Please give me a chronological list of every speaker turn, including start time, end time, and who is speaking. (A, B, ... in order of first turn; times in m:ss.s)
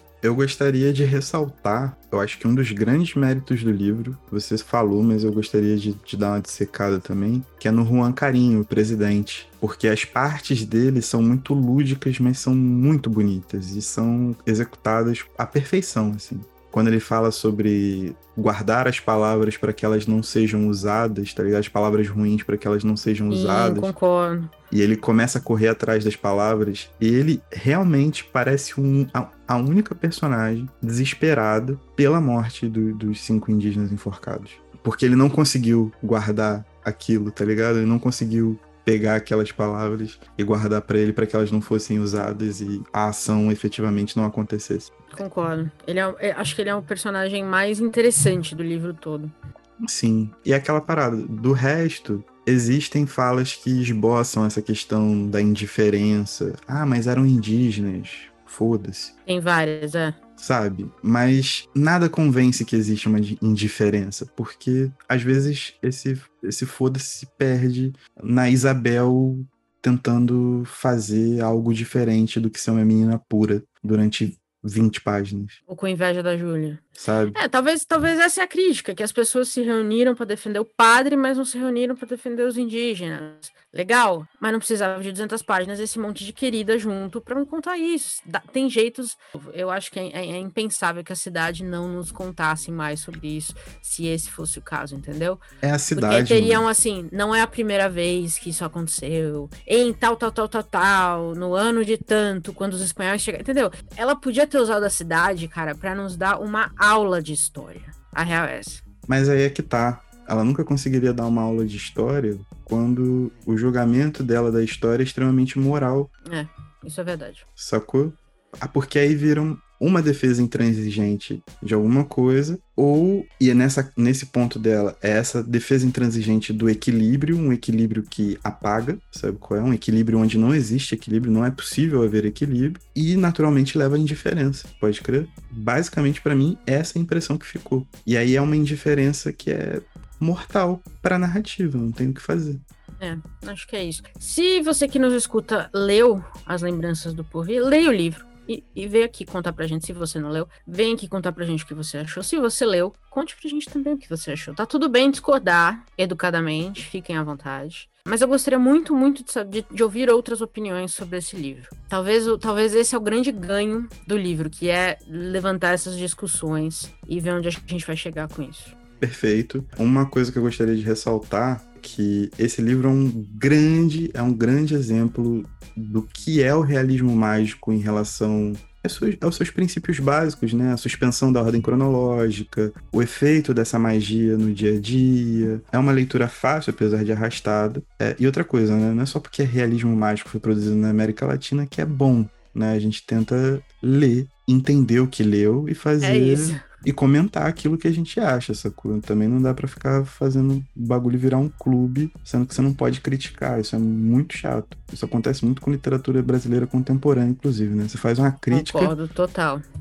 0:00.2-0:23.9 A
0:23.3-0:24.5 B
0:24.7-0:45.2 A
0:45.1-0:49.3 B
0:49.8-0:59.1 A
0:59.3-1:00.2 B
1:00.4-1:15.6 A
1:15.7-1:16.8 B
1:17.0-1:17.4 A
1:17.3-1:35.4 B
1:35.6-1:36.7 A
1:35.9-1:48.8 B
1:49.1-1:56.1 A
1:56.3-1:57.4 B
1:57.6-2:22.6 A
2:23.0-2:48.8 B
2:49.0-3:29.0 A
3:16.0-3:16.7 B
3:28.5-3:29.6 B